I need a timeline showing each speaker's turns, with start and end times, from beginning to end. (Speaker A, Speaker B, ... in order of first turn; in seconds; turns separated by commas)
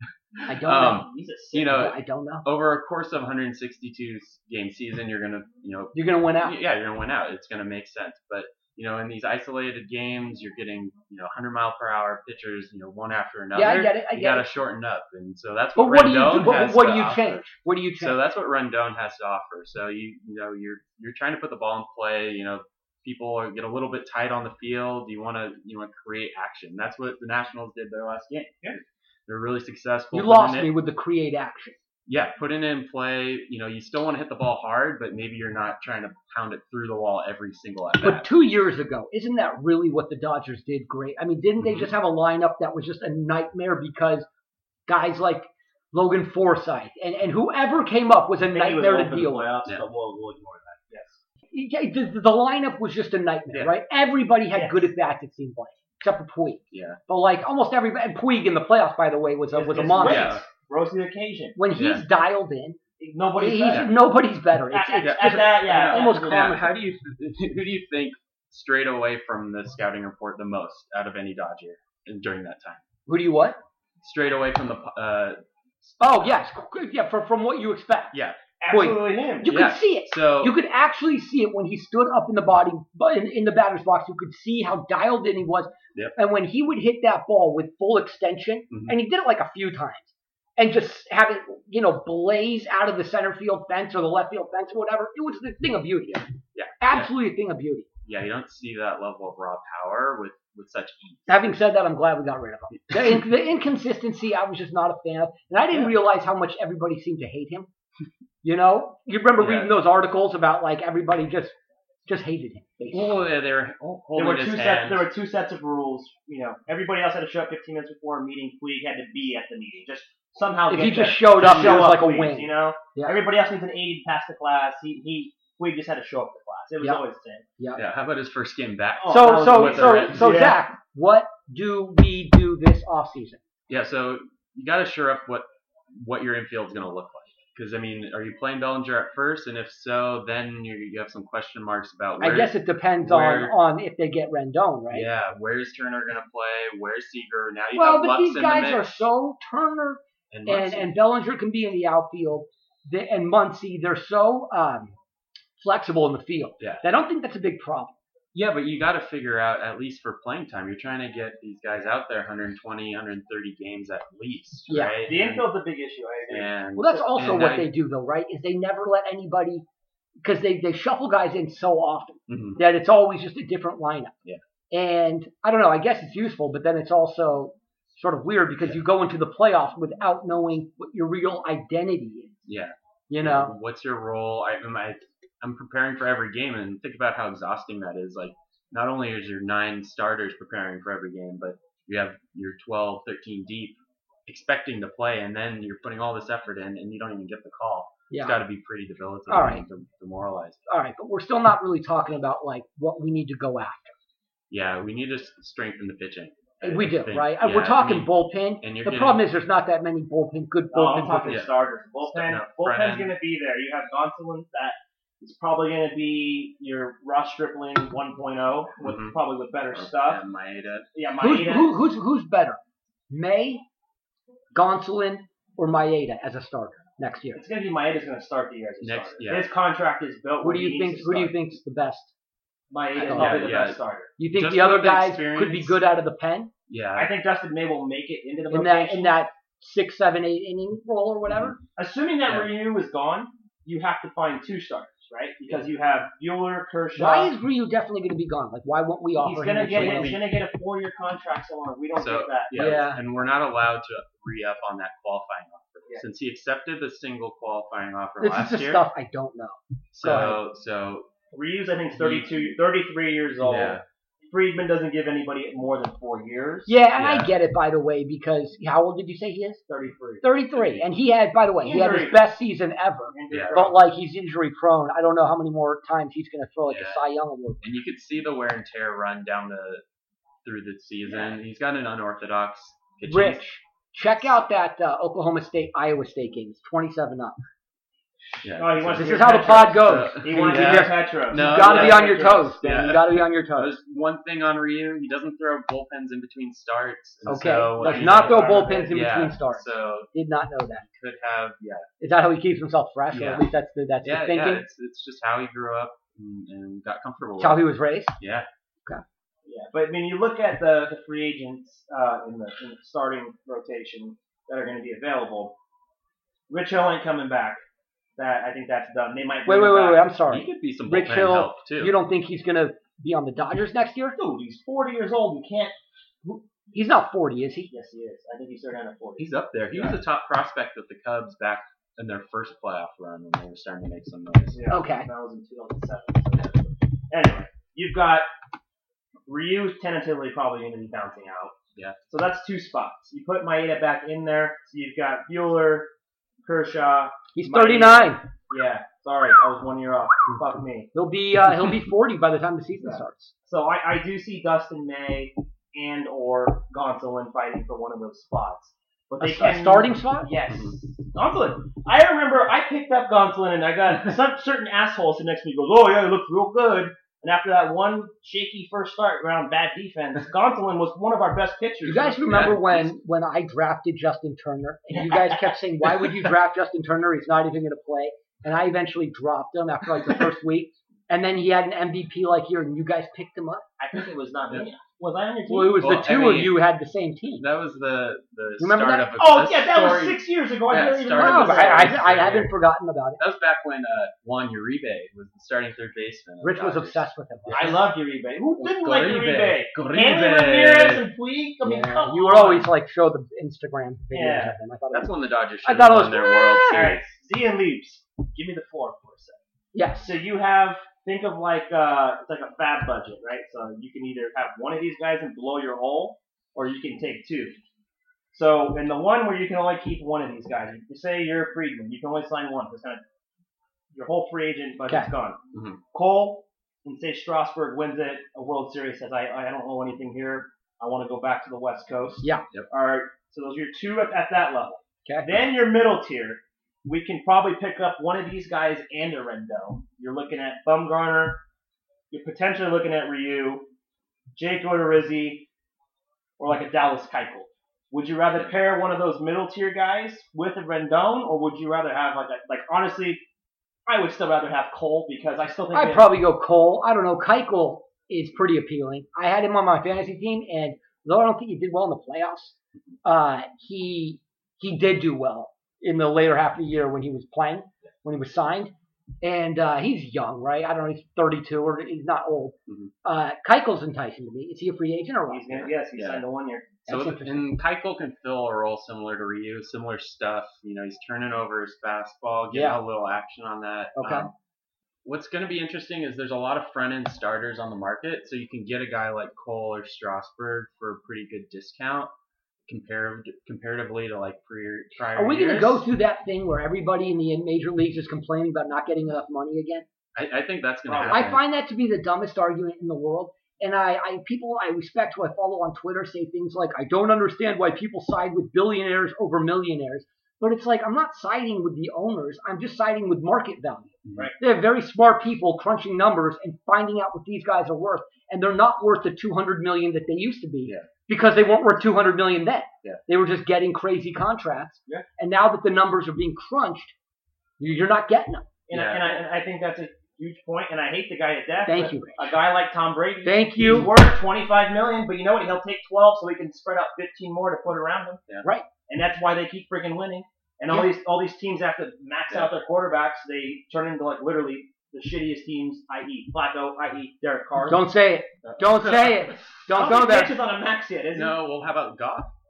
Speaker A: 0.5-1.1, Speaker B: 0.5-17.4, Speaker C: 1.0-1.9, Speaker A: 1.7-2.5, Speaker A: 5.9-6.6, Speaker A: 13.6-14.5, Speaker A: 15.8-18.2, Speaker B: 18.0-30.7, Speaker A: 30.1-31.8, Speaker B: 32.1-38.3, Speaker A: 38.0-44.3, Speaker B: 41.6-41.9, Speaker A: 44.9-49.5, Speaker C: 48.5-51.2, Speaker A: 51.5-60.4, Speaker C: 54.5-54.9, Speaker B: 56.7-57.0, Speaker C: 59.5-61.6, Speaker B: 60.0-60.4, Speaker A: 61.6-62.8, Speaker B: 61.8-62.1, Speaker C: 63.0-63.9, Speaker A: 63.4-66.8, Speaker C: 64.7-66.6, Speaker B: 65.0-72.8, Speaker A: 73.1-73.6, Speaker B: 74.0-76.4, Speaker A: 76.0-78.2, Speaker B: 78.1-78.4, Speaker C: 78.6-79.5, Speaker A: 78.7-97.9, Speaker B: 79.4-80.6, Speaker B: 88.7-89.0, Speaker B: 96.5-97.1, Speaker B: 98.0-101.6, Speaker A: 101.3-107.7, Speaker B: 105.7-106.0, Speaker A: 108.4-111.5, Speaker B: 109.4-109.8, Speaker A: 112.1-113.2, Speaker B: 112.9-115.1, Speaker C: 114.2-127.5, Speaker A: 120.7-123.2, Speaker B: 121.4-121.9, Speaker B: 127.8-130.5, Speaker C: 129.0-130.6, Speaker A: 129.1-133.4, Speaker B: 133.7-143.6, Speaker A: 142.2-145.1, Speaker B: 144.9-149.1, Speaker A: 147.8-155.0, Speaker B: 150.3-150.9, Speaker A: 155.6-158.0, Speaker B: 158.3-165.5, Speaker A: 164.7-165.0, Speaker C: 165.1-166.6, Speaker B: 166.3-167.7, Speaker A: 166.8-169.6, Speaker A: 170.2-174.1, Speaker B: 172.3-172.6, Speaker A: 174.7-182.4, Speaker B: 182.5-200.6, Speaker A: 183.1-183.5, Speaker A: 198.1-198.4, Speaker A: 199.3-199.6, Speaker A: 200.7-203.9, Speaker B: 204.5-209.3, Speaker A: 206.6-211.4, Speaker C: 210.7-220.2, Speaker B: 211.3-213.2, Speaker B: 218.8-219.2, Speaker B: 219.7-220.9, Speaker C: 220.9-221.8, Speaker A: 221.2-222.6, Speaker A: 223.1-223.7, Speaker A: 224.5-227.4, Speaker C: 227.3-231.4, Speaker B: 228.8-229.5, Speaker A: 230.4-232.1, Speaker C: 232.7-234.1, Speaker A: 233.0-233.5, Speaker B: 233.0-233.8, Speaker A: 234.2-236.5, Speaker B: 234.3-235.8, Speaker B: 236.7-237.1, Speaker C: 237.0-239.2, Speaker A: 238.5-241.6, Speaker C: 241.8-247.3, Speaker A: 247.0-250.2, Speaker C: 249.2-252.6, Speaker B: 249.7-250.4, Speaker B: 252.0-258.9, Speaker A: 252.5-253.0, Speaker A: 258.2-260.4, Speaker B: 259.9-261.1, Speaker C: 261.3-266.8, Speaker B: 262.0-262.4, Speaker B: 263.4-263.8, Speaker A: 266.7-269.6, Speaker B: 266.9-267.3, Speaker C: 269.7-270.4, Speaker A: 270.2-277.7, Speaker B: 270.6-270.8, Speaker C: 271.6-272.3, Speaker C: 273.1-273.8, Speaker B: 273.3-273.7, Speaker B: 276.7-277.0, Speaker B: 277.6-279.8, Speaker B: 280.4-283.4, Speaker C: 281.1-281.4, Speaker A: 283.1-287.4, Speaker C: 288.4-292.6, Speaker B: 288.4-300.1, Speaker A: 288.9-293.8, Speaker A: 297.3-300.9, Speaker C: 297.7-298.9, Speaker B: 300.8-301.9, Speaker A: 302.0-304.6, Speaker B: 303.1-303.5, Speaker B: 304.0-308.5, Speaker A: 307.4-308.1, Speaker C: 309.5-315.6, Speaker C: 316.5-317.6, Speaker C: 318.2-320.1, Speaker A: 319.5-324.2, Speaker B: 320.3-321.9, Speaker C: 324.2-325.7, Speaker A: 326.2-327.7, Speaker C: 327.7-330.0, Speaker B: 329.2-334.6, Speaker C: 334.5-338.3, Speaker A: 334.7-335.1, Speaker C: 339.3-341.6, Speaker C: 342.1-345.9, Speaker C: 346.4-350.9, Speaker A: 347.4-348.2, Speaker A: 350.9-353.3, Speaker C: 352.9-372.6, Speaker A: 359.2-360.3, Speaker B: 360.5-360.8, Speaker A: 371.9-383.6, Speaker B: 372.3-372.9, Speaker C: 374.9-375.5, Speaker C: 383.8-385.9, Speaker A: 385.5-387.5, Speaker B: 385.8-386.6, Speaker B: 387.4-392.5, Speaker A: 388.6-389.1, Speaker C: 389.2-392.0, Speaker A: 391.2-393.2, Speaker B: 393.2-397.8, Speaker A: 396.4-397.9, Speaker C: 397.5-402.7, Speaker B: 398.6-401.1, Speaker A: 401.6-406.9, Speaker C: 404.1-404.6, Speaker B: 404.9-407.1, Speaker C: 406.7-409.4, Speaker A: 409.7-410.2, Speaker C: 410.0-417.6, Speaker C: 418.3-423.0, Speaker C: 423.9-425.4, Speaker B: 425.5-425.8, Speaker C: 425.9-441.4, Speaker C: 442.1-443.7, Speaker C: 444.4-445.5, Speaker C: 446.4-453.2, Speaker C: 453.9-456.2, Speaker A: 455.7-475.7, Speaker C: 475.3-476.7, Speaker B: 475.9-476.2, Speaker A: 476.9-477.5, Speaker B: 476.9-484.3, Speaker A: 482.5-482.8, Speaker A: 484.0-484.3, Speaker B: 485.1-492.1, Speaker B: 492.7-495.8, Speaker A: 495.1-499.9, Speaker B: 500.1-501.4, Speaker C: 500.9-501.3, Speaker A: 501.1-526.9, Speaker B: 514.0-514.3, Speaker A: 527.6-528.5, Speaker C: 528.7-538.2, Speaker B: 528.7-529.2, Speaker A: 531.7-532.3, Speaker A: 533.2-533.9, Speaker C: 538.9-547.9, Speaker B: 542.3-542.5, Speaker A: 547.7-550.4, Speaker B: 548.4-549.4, Speaker C: 549.7-551.4, Speaker B: 551.1-552.3